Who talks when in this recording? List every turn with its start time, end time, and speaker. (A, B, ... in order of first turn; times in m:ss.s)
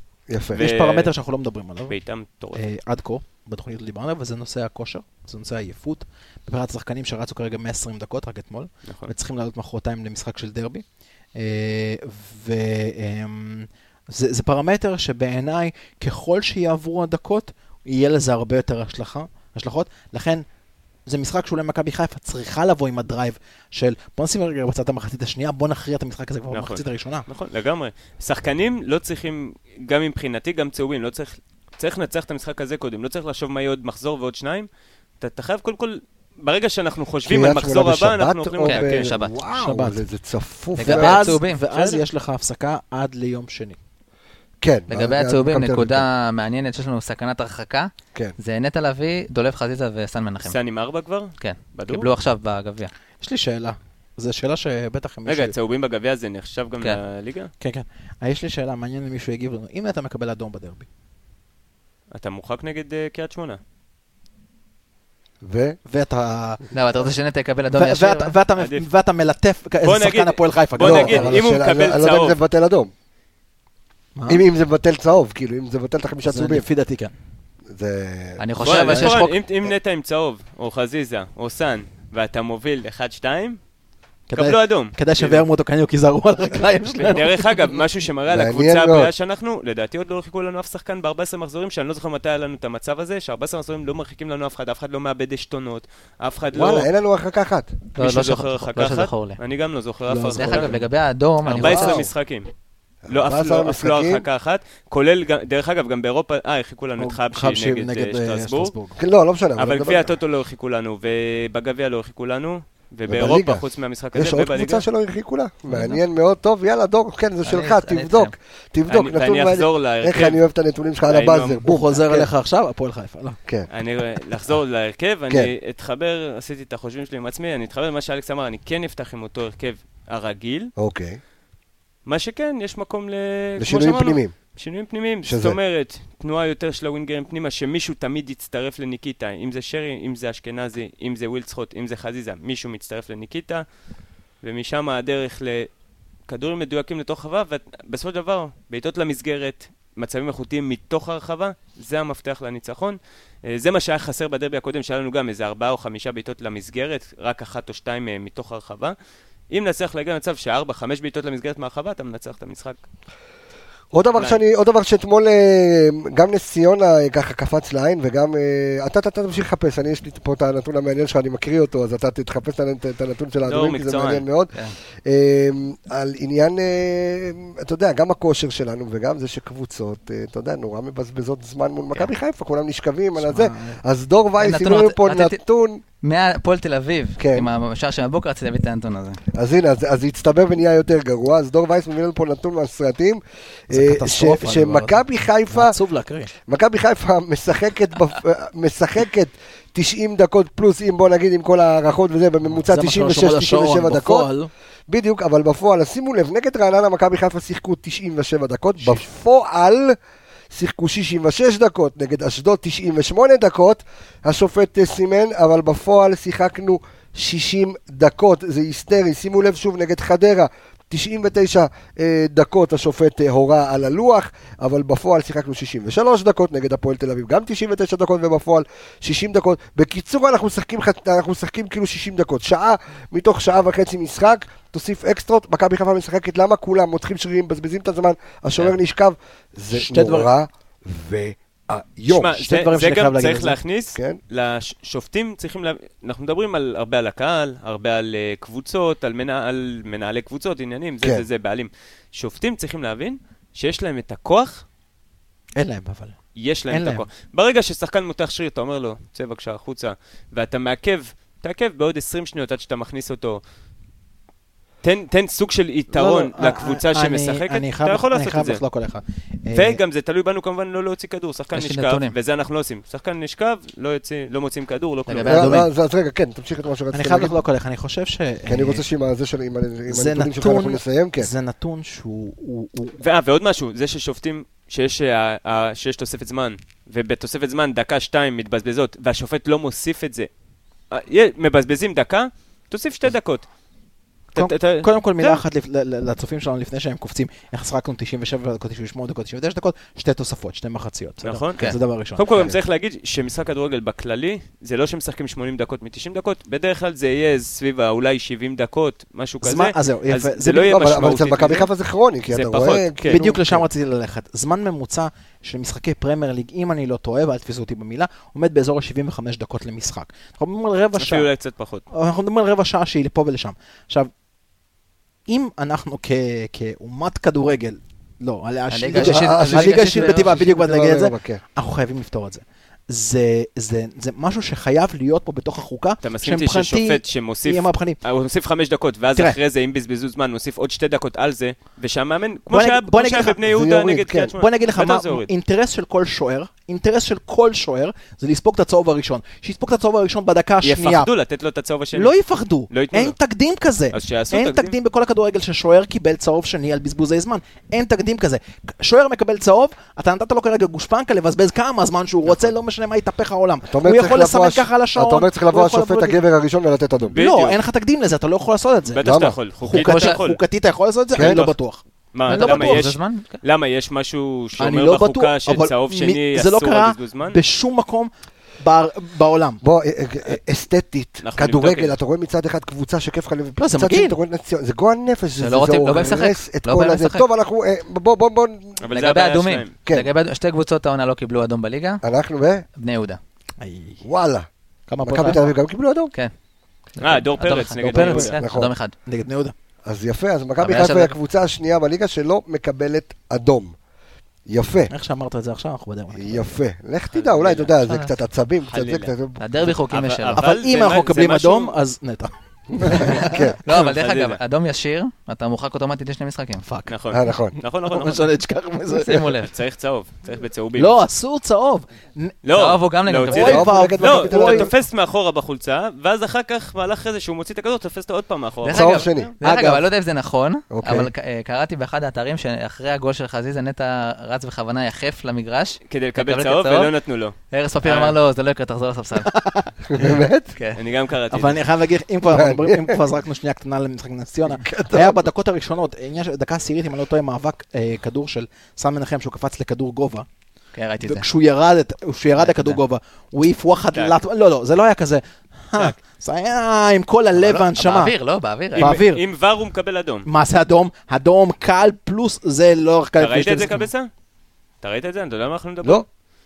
0:00.3-0:00.6 A
0:00.5-0:01.1 B
0:00.5-0:01.9 C
0:01.9-0:02.6 B
0:02.5-0:20.4 C
0:08.8-0:09.1 B
0:21.0-0:27.2 C
0:26.5-0:34.7 B
0:35.2-0:39.1 B
0:37.2-0:41.4 A
0:38.6-0:39.3 D
0:39.5-0:40.0 C
0:40.8-0:41.6 D
0:40.8-0:43.8 C
0:41.7-0:42.0 B
0:44.6-0:46.1 A
0:44.9-0:50.6 D
0:50.4-0:52.1 B
0:51.4-0:52.9 D
0:53.2-0:55.5 C
0:55.2-0:57.5 B
0:57.6-1:00.9 C
1:02.1-1:03.6 B
1:05.4-1:05.8 A
1:05.8-1:06.6 C
1:06.7-1:08.4 D
1:07.7-1:11.4 C
1:08.6-1:08.8 B
1:09.8-1:12.4 B
1:10.8-1:12.9 A
1:14.2-1:14.4 C
1:14.3-1:16.6 A
1:16.2-1:17.1 C
1:17.7-1:19.1 A
1:18.4-1:19.3 D
1:18.6-1:23.6 B
1:18.7-1:19.3 C
1:24.3-1:27.5 C
1:24.3-1:25.4 B
1:27.0-1:36.9 B
1:28.3-1:29.1 A
1:36.5-1:37.7 A
1:38.0-1:39.4 D
1:38.0-1:40.7 B
1:40.1-1:40.7 C
1:40.3-1:42.0 D
1:41.4-1:42.5 B
1:41.6-1:42.1 A
1:43.1-1:44.2 A
1:43.1-1:48.7 B
1:47.0-1:49.0 C
1:49.0-1:50.1 A
1:49.6-1:54.8 B
1:53.1-1:53.6 A
1:54.1-2:02.3 A
1:55.7-1:56.0 D
1:57.4-1:58.3 D
1:58.9-2:00.4 B
2:01.0-2:01.7 B
2:01.6-2:03.4 C
2:03.7-2:10.7 B
2:10.8-2:11.2 A
2:12.0-2:23.6 B
2:13.6-2:14.4 A
2:15.2-2:15.6 A
2:24.4-2:25.7 B
2:26.2-2:38.9 B
2:39.5-2:42.8 B
2:43.9-3:05.8 A
2:44.1-2:44.4 B
2:53.4-2:54.2 B
3:03.2-3:03.8 C
3:04.4-3:05.4 D
3:06.0-3:09.2 D
3:07.2-3:07.5 A
3:09.3-3:15.8 A
3:13.7-3:16.3 C
3:16.4-3:24.3 A
3:22.6-3:24.5 C
3:24.9-3:30.0 A
3:30.5-4:02.4 A
3:59.7-4:00.3 C
4:02.1-4:14.6 B
4:02.4-4:03.6 C
4:15.6-4:17.0 C
4:16.4-4:23.4 B
4:24.8-4:28.6 B
4:25.9-4:29.8 C
4:29.5-4:35.6 B
4:31.5-4:32.1 D
4:35.1-4:35.7 D
4:35.2-4:37.4 A
4:36.9-4:38.8 C
4:38.5-4:41.3 A
4:39.9-4:43.0 C
4:43.0-4:50.3 B
4:50.9-4:53.5 B
4:54.3-4:55.4 B
4:54.3-5:02.5 C
5:01.2-5:11.7 B
5:09.4-5:10.8 C
5:10.7-5:13.6 A
5:12.3-5:13.2 B
5:13.1-5:21.3 C
5:21.0-5:21.8 B
5:21.9-5:24.1 C
5:25.3-5:38.0 C
5:28.7-5:30.4 D
5:28.9-5:31.4 A
5:36.0-5:45.3 B
5:42.5-5:43.4 C
5:43.4-5:44.3 A
5:44.4-5:51.1 C
5:50.6-5:52.2 B
5:51.9-6:06.2 C
5:52.7-5:53.2 B
5:53.9-5:54.8 B
6:03.6-6:07.2 A
6:07.1-6:07.6 B
6:07.1-6:09.0 C
6:08.9-6:10.4 B
6:09.0-6:09.4 A
6:09.6-6:12.8 C
6:09.7-6:10.2 D
6:11.1-6:11.6 B
6:11.2-6:11.4 A
6:12.1-6:17.4 B
6:12.3-6:13.4 D
6:14.6-6:19.6 C
6:19.6-6:28.9 A
6:21.2-6:21.9 B
6:23.6-6:24.2 C
6:25.4-6:27.2 D
6:28.8-6:29.7 B
6:28.9-6:32.0 D
6:32.0-6:32.6 A
6:32.8-6:33.2 D
6:33.6-6:34.0 C
6:34.0-6:34.5 A
6:34.9-6:35.5 C
6:35.0-6:36.1 A
6:36.9-6:38.9 D
6:37.0-6:38.4 B
6:37.9-6:38.7 A
6:37.9-6:38.2 C
6:39.0-6:39.5 C
6:39.8-6:43.7 A
6:40.6-6:41.2 D
6:44.5-6:44.9 A
6:44.9-6:46.5 C
6:46.1-6:49.8 A
6:47.1-6:47.7 B
6:47.9-6:48.1 D
6:48.7-6:49.1 B
6:49.4-6:50.4 D
6:49.6-6:51.7 B
6:50.3-6:53.4 C
6:53.0-6:53.6 A
6:53.1-6:54.4 B
6:53.1-6:56.7 D
6:56.6-6:56.9 C
6:56.9-6:58.3 B
6:57.1-6:57.6 A
6:57.9-6:59.4 C
6:58.9-6:59.5 D
6:59.4-7:00.9 B
7:00.8-7:02.3 C
7:02.4-7:09.2 B
7:02.5-7:03.7 D
7:03.3-7:04.7 A
7:03.3-7:04.7 C
7:08.6-7:16.9 D
7:08.7-7:09.3 A
7:09.4-7:09.8 C
7:10.7-7:11.1 A
7:15.9-7:18.2 B
7:17.5-7:19.4 D
7:19.2-7:19.7 C
7:19.8-7:20.5 A
7:20.7-7:21.6 B
7:21.3-7:30.3 C
7:22.3-7:23.0 A
7:24.6-7:25.3 A
7:30.7-7:31.3 D
7:31.0-7:38.1 C
7:32.4-7:32.8 D
7:37.4-7:39.0 D
7:38.7-7:40.3 B
7:38.8-7:39.2 C
7:40.2-7:43.9 C
7:43.2-7:44.1 B
7:44.8-7:46.0 B